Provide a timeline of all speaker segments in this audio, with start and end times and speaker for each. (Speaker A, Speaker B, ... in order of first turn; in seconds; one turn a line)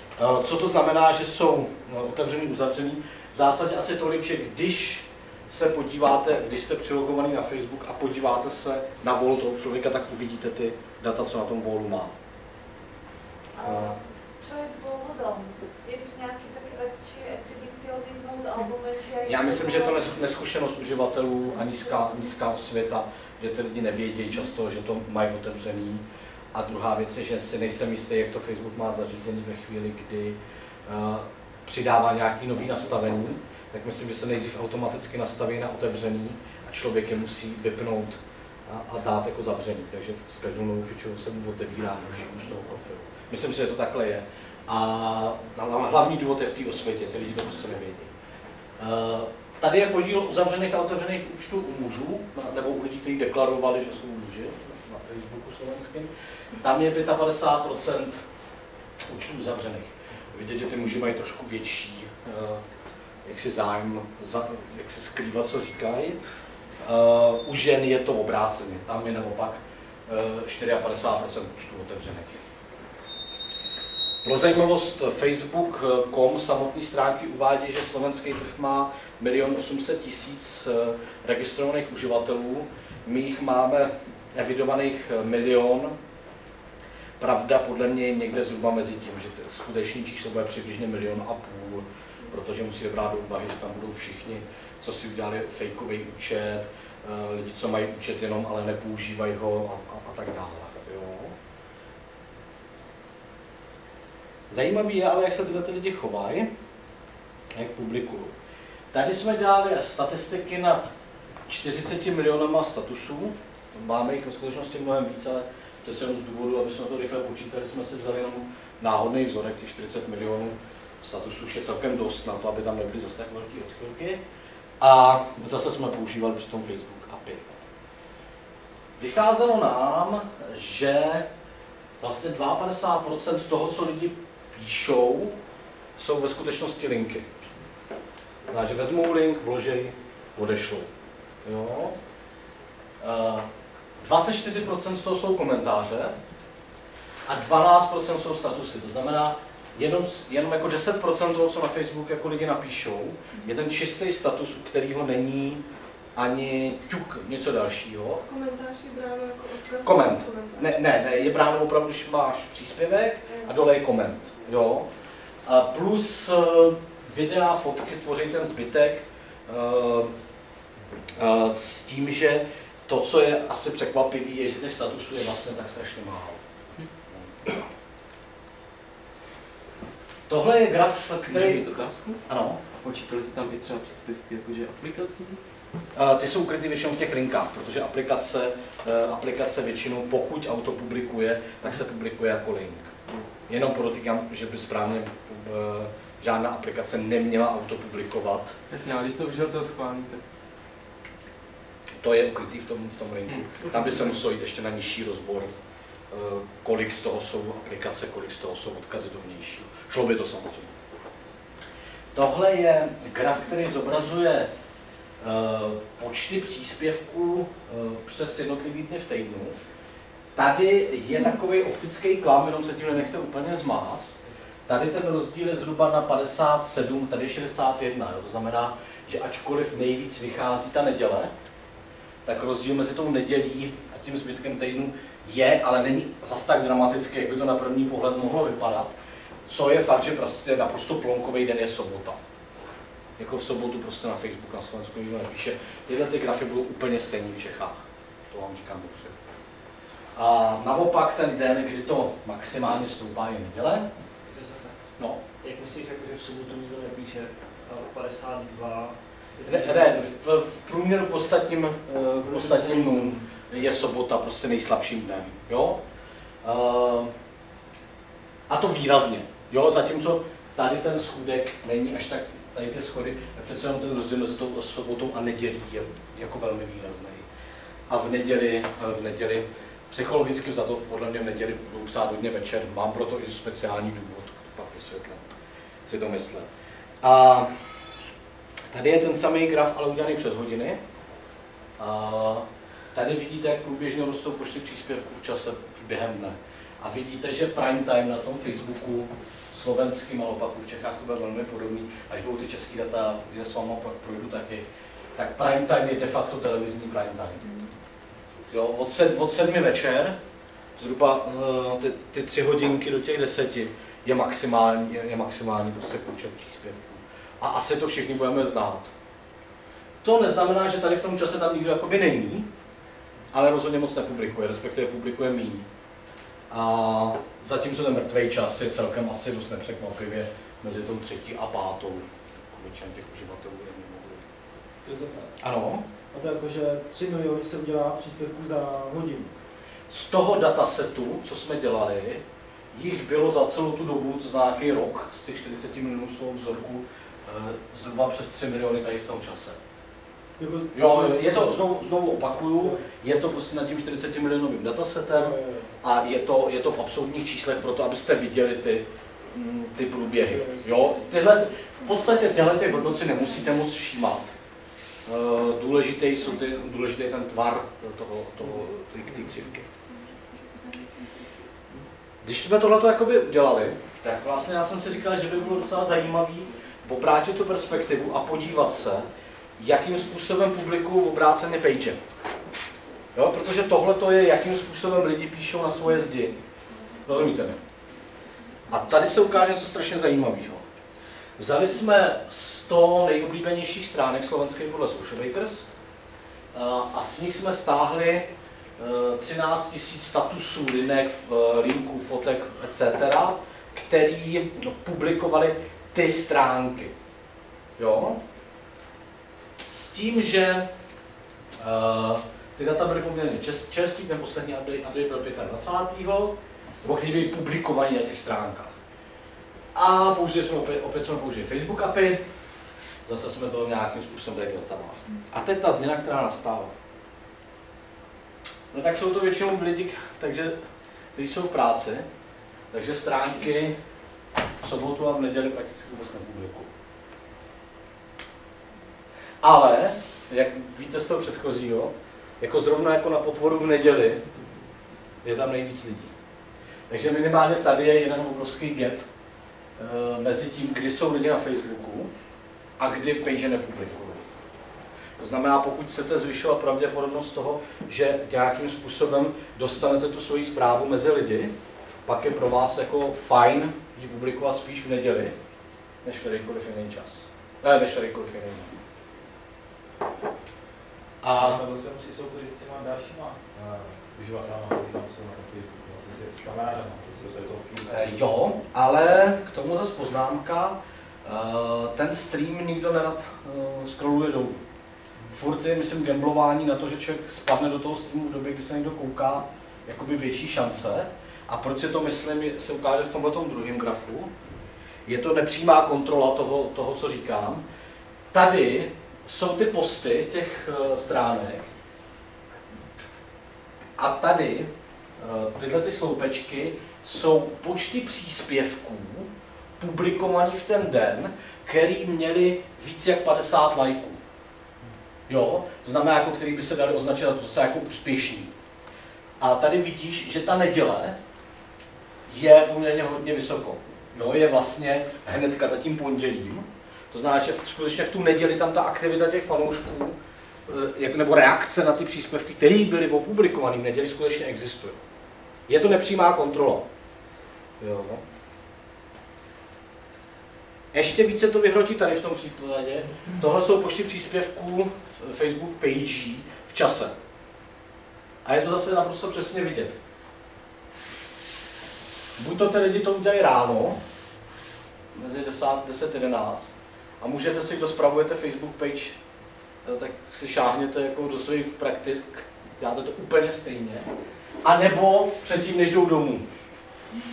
Speaker A: 0.2-12.2
Speaker B: 13.6-20.1
Speaker A: 13.6-14.0
Speaker A: 19.2-48.1
Speaker B: 21.8-22.3
Speaker A: 48.8-58.2
Speaker A: 59.0-62.6
Speaker A: 63.2-66.2
Speaker A: 66.8-72.4
Speaker A: 74.2-86.0
Speaker A: 87.2-101.3
Speaker A: 104.5-106.5
Speaker A: 107.5-108.3
Speaker A: 108.9-110.9
Speaker A: 111.5-124.2
Speaker A: 124.8-127.5
Speaker A: 129.0-131.3
Speaker A: 132.0-135.4
Speaker A: 136.0-137.3
Speaker A: 138.5-140.9
Speaker A: 141.4-142.0
Speaker A: 143.0-143.5
Speaker A: 144.0-146.2
Speaker A: 147.3-155.6
Speaker A: 156.2-158.2
Speaker C: 158.2-160.7
Speaker A: 159.8-164.9
Speaker A: 165.4-170.1
Speaker A: 171.2-176.4
Speaker A: 177.1-177.5
Speaker A: 180.3-182.6
Speaker D: 181.3-182.2
Speaker D: 182.8-185.4
Speaker A: 185.9-192.9
Speaker A: 193.5-198.6
Speaker D: 198.7-200.2
Speaker A: 202.0-205.5
Speaker D: 203.3-203.8
Speaker A: 206.1-210.7
Speaker A: 212.1-214.5
Speaker A: 215.2-219.6
Speaker A: 220.3-231.3
Speaker A: 232.3-238.9
Speaker A: 239.5-242.2
Speaker A: 243.2-249.2
Speaker A: 250.2-253.9
Speaker E: 254.3-254.8
Speaker E: 255.4-260.1
Speaker A: 259.4-265.8
Speaker E: 262.2-263.2
Speaker A: 266.4-267.1
Speaker A: 268.5-277.3
Speaker A: 277.9-285.3
Speaker A: 285.9-286.5
Speaker A: 287.0-287.5
Speaker A: 288.7-290.8
Speaker A: 291.8-304.6
Speaker A: 305.2-307.5
Speaker A: 308.5-310.2
Speaker A: 310.8-318.9
Speaker A: 320.0-322.5
Speaker A: 323.3-325.7
Speaker A: 326.5-334.2
Speaker F: 334.9-335.4
Speaker A: 335.4-335.8
Speaker F: 336.1-339.3
Speaker A: 339.9-349.6
Speaker F: 350.4-352.8
Speaker A: 350.7-364.3
Speaker F: 355.1-355.7
Speaker F: 360.3-360.8
Speaker A: 365.1-369.7
Speaker C: 369.9-371.3
Speaker A: 372.2-379.1
Speaker A: 379.6-382.0
Speaker A: 383.1-386.4
Speaker A: 387.1-387.6
Speaker A: 388.7-390.6
Speaker A: 391.4-395.7
Speaker A: 396.5-406.9
Speaker A: 407.8-408.2
Speaker A: 409.6-410.7
Speaker A: 411.6-418.8
Speaker A: 419.7-422.2
Speaker A: 423.1-426.7
Speaker A: 428.7-430.6
Speaker A: 431.2-432.1
Speaker A: 432.7-433.8
Speaker A: 434.6-436.7
Speaker A: 439.4-444.2
Speaker A: 445.2-446.1
Speaker A: 446.9-449.0
Speaker A: 449.8-452.1
Speaker A: 452.8-454.3
Speaker A: 455.2-461.5
Speaker A: 462.1-465.4
Speaker A: 466.0-468.8
Speaker A: 471.2-471.6
Speaker F: 471.4-478.1
Speaker A: 477.9-484.6
Speaker A: 485.3-494.3
Speaker A: 495.1-497.6
Speaker A: 498.3-501.7
Speaker A: 504.0-514.2
Speaker A: 515.3-518.5
Speaker A: 519.4-521.2
Speaker A: 522.3-530.2
Speaker A: 530.7-535.0
Speaker A: 535.7-536.9
Speaker A: 537.8-538.2
Speaker A: 540.9-547.1
Speaker A: 548.4-550.0
Speaker A: 552.4-554.0
Speaker A: 555.1-559.2
Speaker A: 559.8-564.1
Speaker A: 564.6-566.5